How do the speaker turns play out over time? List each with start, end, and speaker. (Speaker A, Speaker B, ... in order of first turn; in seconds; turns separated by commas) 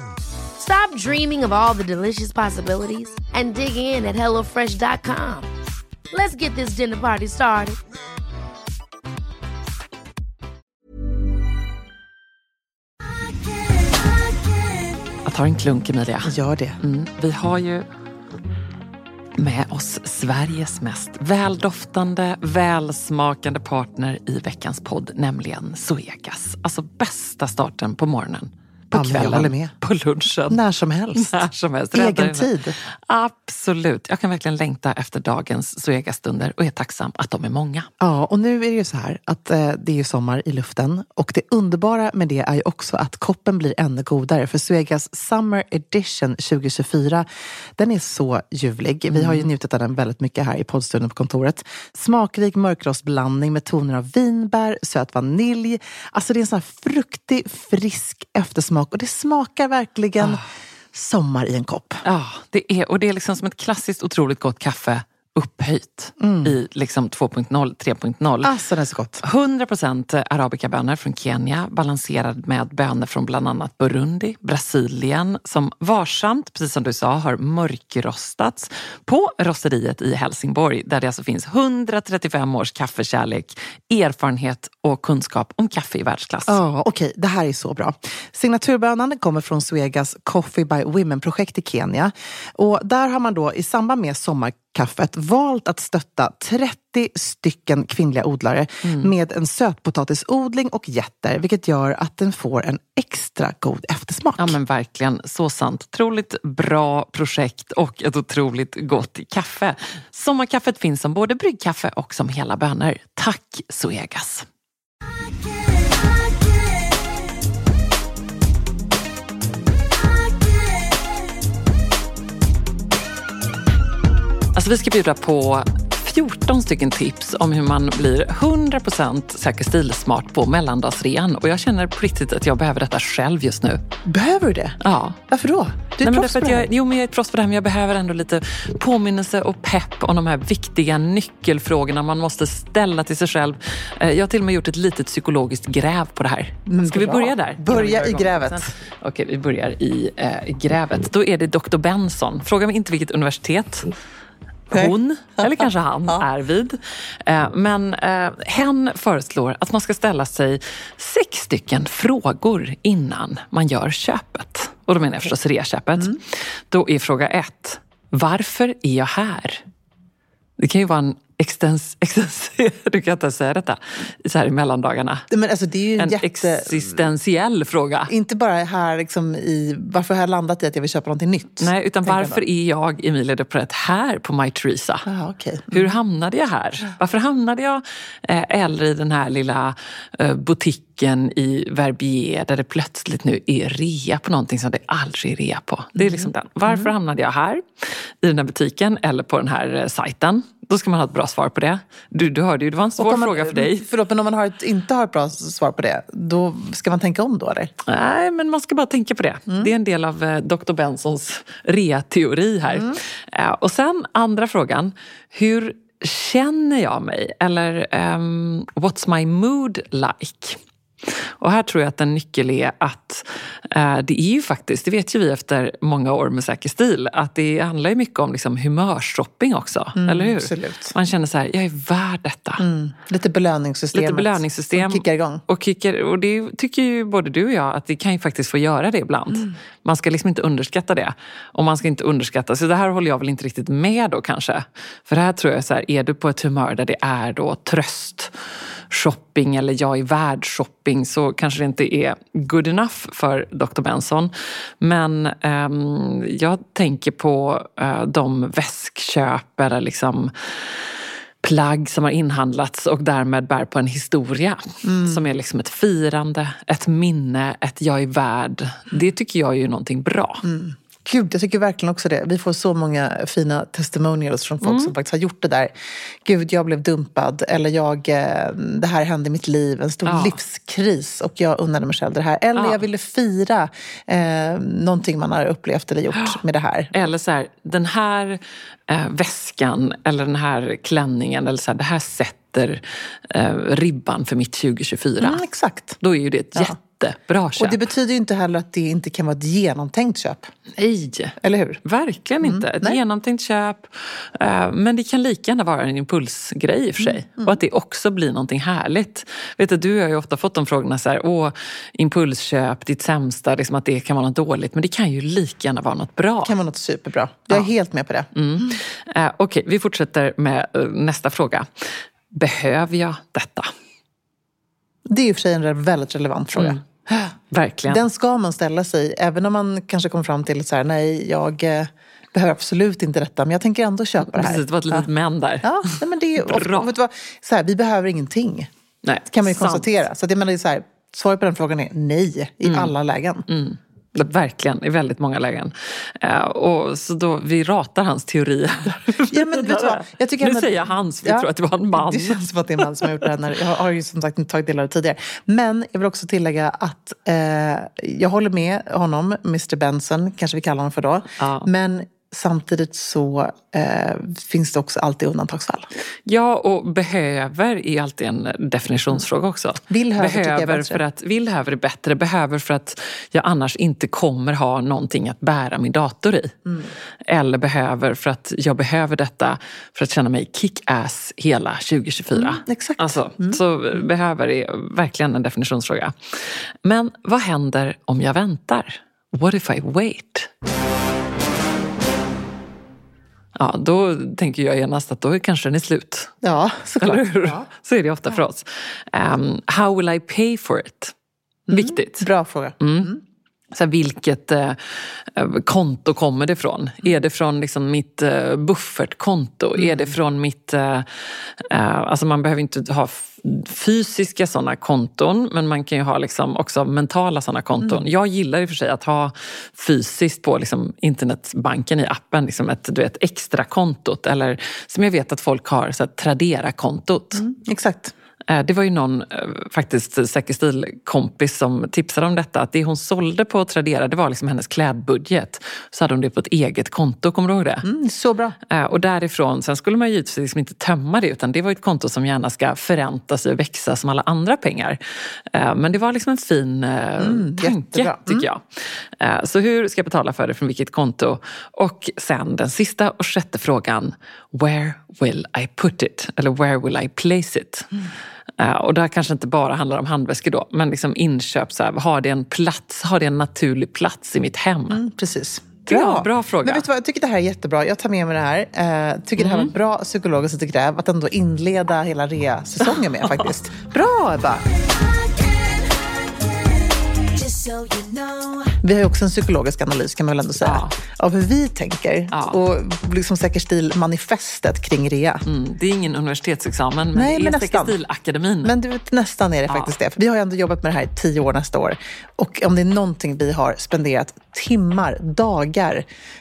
Speaker A: 0.6-5.5, Speaker A: 6.1-7.8, Speaker B: 15.2-17.9, Speaker C: 16.2-16.8, Speaker B: 19.4-30.6, Speaker C: 28.9-29.7, Speaker C: 30.5-31.4, Speaker B: 31.1-32.5, Speaker C: 31.9-32.8, Speaker B: 33.1-37.9, Speaker C: 38.0-60.4, Speaker B: 49.1-49.5, Speaker C: 60.9-62.0, Speaker B: 62.0-68.5, Speaker C: 66.2-66.5, Speaker C: 68.4-69.2, Speaker B: 69.2-86.6, Speaker C: 86.5-104.6, Speaker B: 98.8-99.1, Speaker B: 104.4-114.5, Speaker B: 124.5-133.8, Speaker C: 134.1-134.8, Speaker B: 134.8-135.2, Speaker C: 135.3-136.7, Speaker B: 136.0-153.9, Speaker C: 146.7-148.7, Speaker B: 154.7-169.6, Speaker B: 170.6-175.2, Speaker C: 175.3-177.1, Speaker B: 176.0-178.1, Speaker C: 178.1-182.4, Speaker B: 181.6-185.1, Speaker C: 185.1-185.9, Speaker B: 185.7-203.9, Speaker C: 195.9-196.9, Speaker C: 203.0-207.7, Speaker B: 207.9-232.6, Speaker C: 212.7-213.0, Speaker C: 229.9-230.9, Speaker C: 232.6-235.4, Speaker B: 233.9-248.3, Speaker B: 248.9-260.9, Speaker B: 261.4-270.4, Speaker C: 264.8-265.3, Speaker C: 270.4-275.7, Speaker B: 274.6-274.9, Speaker C: 276.2-286.9, Speaker B: 280.1-280.4, Speaker B: 282.6-282.8, Speaker B: 286.9-295.4, Speaker C: 295.2-296.0, Speaker B: 296.0-297.8, Speaker C: 297.6-300.5, Speaker B: 300.8-316.5, Speaker C: 301.4-301.8, Speaker C: 302.4-303.0, Speaker C: 307.0-307.6, Speaker C: 316.4-318.8, Speaker B: 318.4-323.7, Speaker C: 325.1-327.3, Speaker B: 326.6-326.8, Speaker B: 327.5-328.0, Speaker C: 327.9-335.1, Speaker B: 334.2-336.9, Speaker C: 335.6-338.7, Speaker B: 339.0-339.9, Speaker C: 339.3-343.5, Speaker B: 342.6-342.9, Speaker B: 343.5-353.1, Speaker C: 349.3-365.9, Speaker B: 361.4-361.7, Speaker B: 366.3-376.5, Speaker C: 369.9-371.0, Speaker B: 377.3-390.5, Speaker C: 382.3-383.6, Speaker B: 393.6-396.3, Speaker C: 396.4-397.6, Speaker B: 397.0-401.1, Speaker C: 401.7-403.2, Speaker B: 401.7-402.3, Speaker B: 402.8-403.2, Speaker B: 403.7-411.1, Speaker C: 409.8-410.1, Speaker B: 411.6-427.4, Speaker C: 427.4-428.1, Speaker B: 428.5-437.9, Speaker C: 437.8-438.6, Speaker B: 438.7-445.0, Speaker B: 445.5-457.9, Speaker C: 447.2-448.5, Speaker B: 458.6-465.0, Speaker C: 464.9-474.7, Speaker B: 465.9-466.9, Speaker B: 469.4-469.7, Speaker C: 477.4-485.4, Speaker B: 480.6-480.9, Speaker B: 482.3-482.6, Speaker B: 485.4-488.8, Speaker C: 487.1-488.0, Speaker C: 488.6-496.1, Speaker B: 489.7-489.9